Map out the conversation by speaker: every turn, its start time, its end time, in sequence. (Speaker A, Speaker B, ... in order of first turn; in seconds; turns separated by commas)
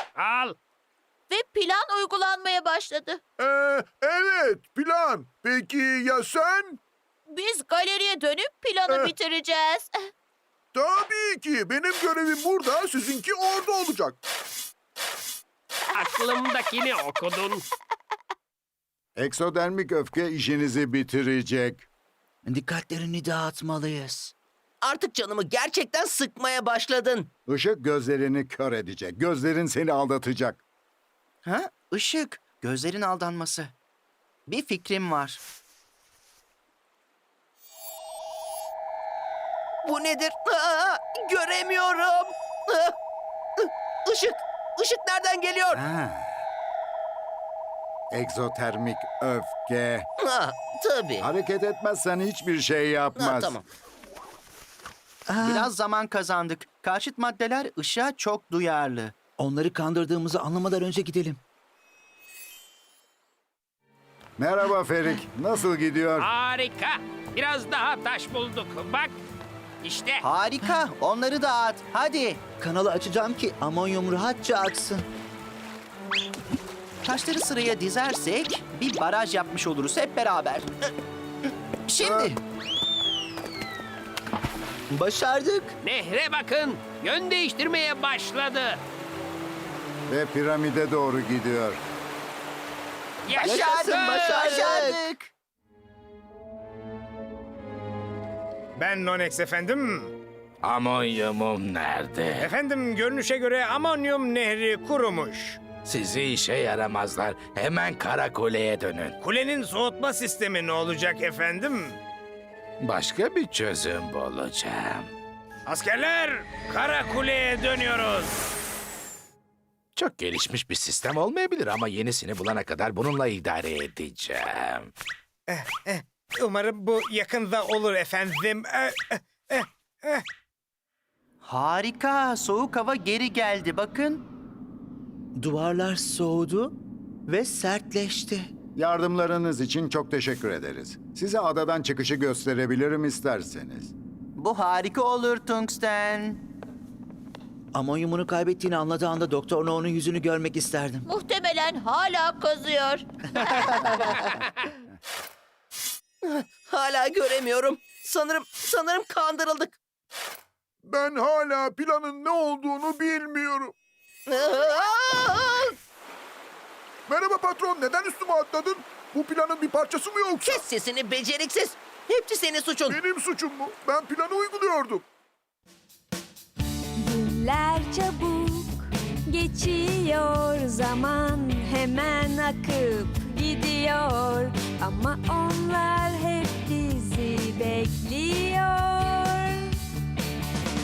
Speaker A: 0.2-0.5, Speaker B: 1.3-3.2, Speaker C: 3.4-6.8, Speaker B: 7.3-9.9, Speaker C: 8.9-9.1, Speaker C: 10.7-14.2, Speaker A: 15.9-17.6, Speaker D: 19.1-21.9, Speaker E: 22.4-24.3, Speaker F: 24.8-27.2, Speaker D: 27.5-30.6, Speaker G: 31.4-33.7, Speaker G: 34.5-35.4, Speaker F: 39.9-42.2, Speaker F: 44.9-45.7, Speaker D: 45.7-46.3, Speaker D: 48.1-50.1, Speaker F: 50.2-51.2, Speaker D: 51.2-53.5, Speaker F: 53.2-53.5, Speaker E: 55.3-55.7, Speaker G: 55.4-59.1, Speaker E: 59.4-61.4, Speaker D: 64.4-66.3, Speaker A: 66.2-69.2, Speaker A: 69.8-70.2, Speaker G: 70.2-72.4, Speaker E: 72.6-75.0, Speaker G: 77.0-80.7, Speaker G: 81.9-82.4, Speaker D: 82.0-82.3, Speaker E: 84.9-85.8, Speaker A: 85.8-88.8, Speaker D: 90.1-91.8, Speaker A: 93.2-94.7, Speaker E: 93.4-95.1, Speaker G: 93.4-95.1, Speaker H: 98.8-100.1, Speaker I: 100.6-102.5, Speaker H: 102.4-105.6, Speaker I: 105.8-109.2, Speaker H: 109.2-112.0, Speaker I: 112.8-115.1, Speaker H: 115.7-118.3, Speaker I: 120.0-124.9, Speaker H: 125.5-130.2, Speaker G: 131.4-134.2, Speaker E: 135.3-136.7, Speaker E: 137.4-138.5, Speaker D: 138.8-143.9, Speaker G: 144.4-146.4, Speaker E: 147.7-151.0, Speaker B: 151.1-154.1, Speaker F: 156.7-159.7, Speaker C: 160.8-163.7, Speaker F: 164.3-165.4, Speaker C: 167.1-170.7, Speaker F: 170.5-172.8, Speaker C: 172.9-175.0, Speaker J: 177.0-189.8